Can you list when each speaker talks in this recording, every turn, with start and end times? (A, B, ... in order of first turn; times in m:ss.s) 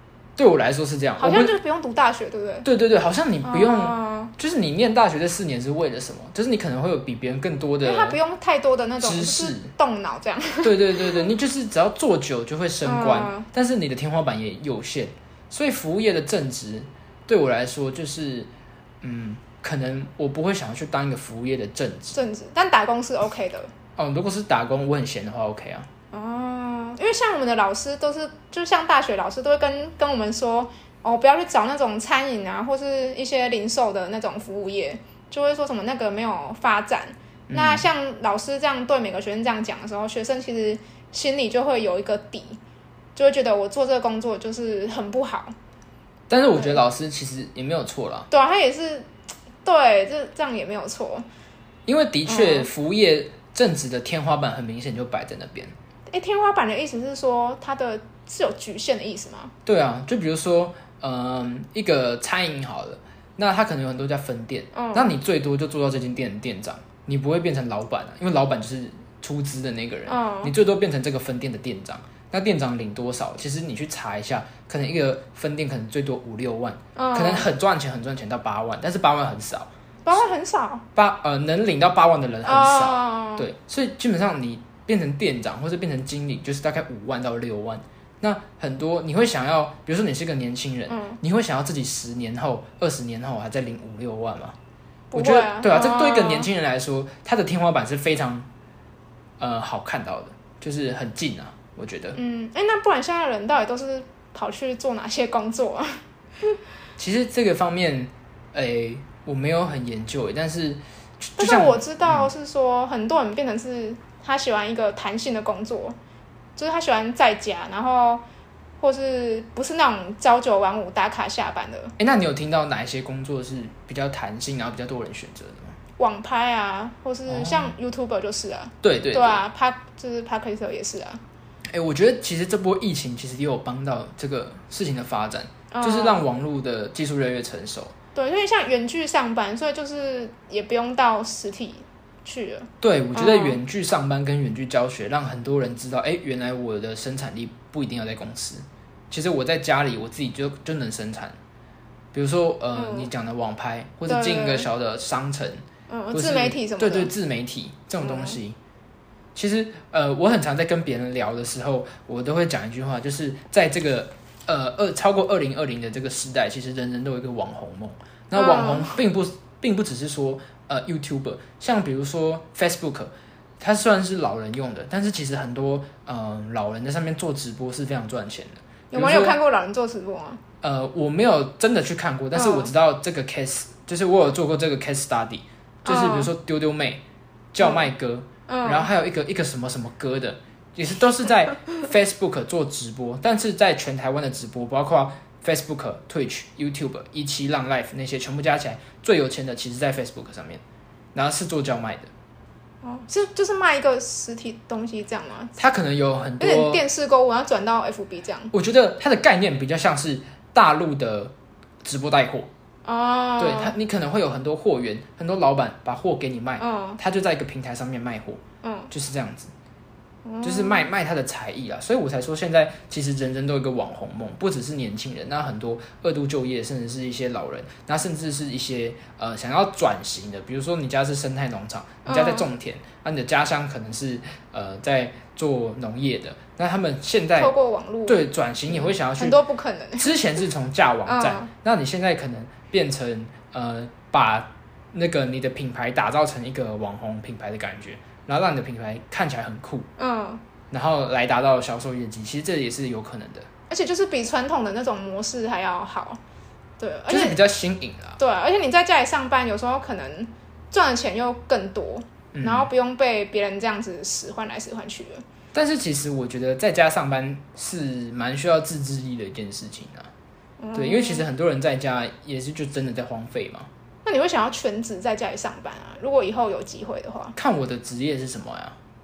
0:00.4-0:01.5 A
0:01.2-0:02.7 B
0:02.6-0:08.2 A
0:03.4-0:04.3 B
0:07.8-0:11.3 B
0:09.0-0:09.7 A
0:10.6-0:18.5 A
0:12.8-0:13.5 B
0:19.0-0:22.2 A
0:22.1-0:23.7 B
0:24.0-0:25.9 A
0:26.1-0:42.6 B
0:37.5-0:37.9 A
0:43.2-0:45.6 B
0:46.3-0:48.3 A
0:48.3-0:49.1 B
0:49.6-0:51.3 B
0:51.9-0:55.8 A
0:52.3-0:52.7 B
0:56.1-0:59.5 B
0:59.7-1:19.7 A
1:04.7-1:05.2 B
1:10.1-1:10.5 B
1:17.0-1:17.5 B
1:20.0-1:20.9 B
1:21.0-1:34.6 A
1:22.5-1:23.5 B
1:30.9-1:31.2 B
1:35.1-1:36.5 B
1:35.2-1:38.5 A
1:39.4-1:42.2 A
1:42.2-1:46.6 B
1:47.0-1:52.3 A
1:51.4-1:56.0 B
1:56.6-1:58.2 B
1:58.8-2:02.0 B
2:02.0-2:05.8 A
2:06.0-2:11.2 B
2:07.3-2:07.7 A
2:08.8-2:09.4 A
2:11.7-2:17.9 A
2:15.7-2:16.2 B
2:18.2-2:23.6 B
2:22.8-2:31.4 A
2:32.1-2:38.6 A
2:32.7-2:33.1 B
2:34.1-2:34.7 B
2:35.9-2:37.1 B
2:38.0-2:38.4 B
2:39.4-2:59.4 A
2:48.3-2:49.0 B
2:58.9-3:00.4 B
3:00.6-3:07.0 A
3:02.4-3:02.7 B
3:05.9-3:06.3 B
3:07.5-3:20.6 A
3:07.6-3:07.9 B
3:08.5-3:08.9 B
3:21.1-3:22.1 A
3:22.8-3:25.6 B
3:25.6-3:26.8 A
3:26.4-3:28.5 B
3:28.5-3:32.5 A
3:32.8-3:33.8 B
3:33.4-3:38.4 A
3:36.6-3:37.0 B
3:38.6-3:38.9 B
3:38.9-3:39.5 A
3:40.2-3:40.9 B
3:40.4-3:57.5 A
3:52.1-3:52.5 B
3:57.4-4:00.2 B
3:58.1-3:59.4 A
4:00.0-4:09.9 A
4:01.1-4:01.5 B
4:10.0-4:10.4 B
4:10.7-4:13.5 A
4:13.7-4:16.2 B
4:16.8-4:17.4 B
4:17.1-4:18.2 A
4:18.2-4:25.2 B
4:22.3-4:22.7 A
4:25.5-4:30.1 A
4:30.6-4:31.3 B
4:30.7-4:33.7 A
4:34.0-4:37.4 B
4:37.4-4:38.8 A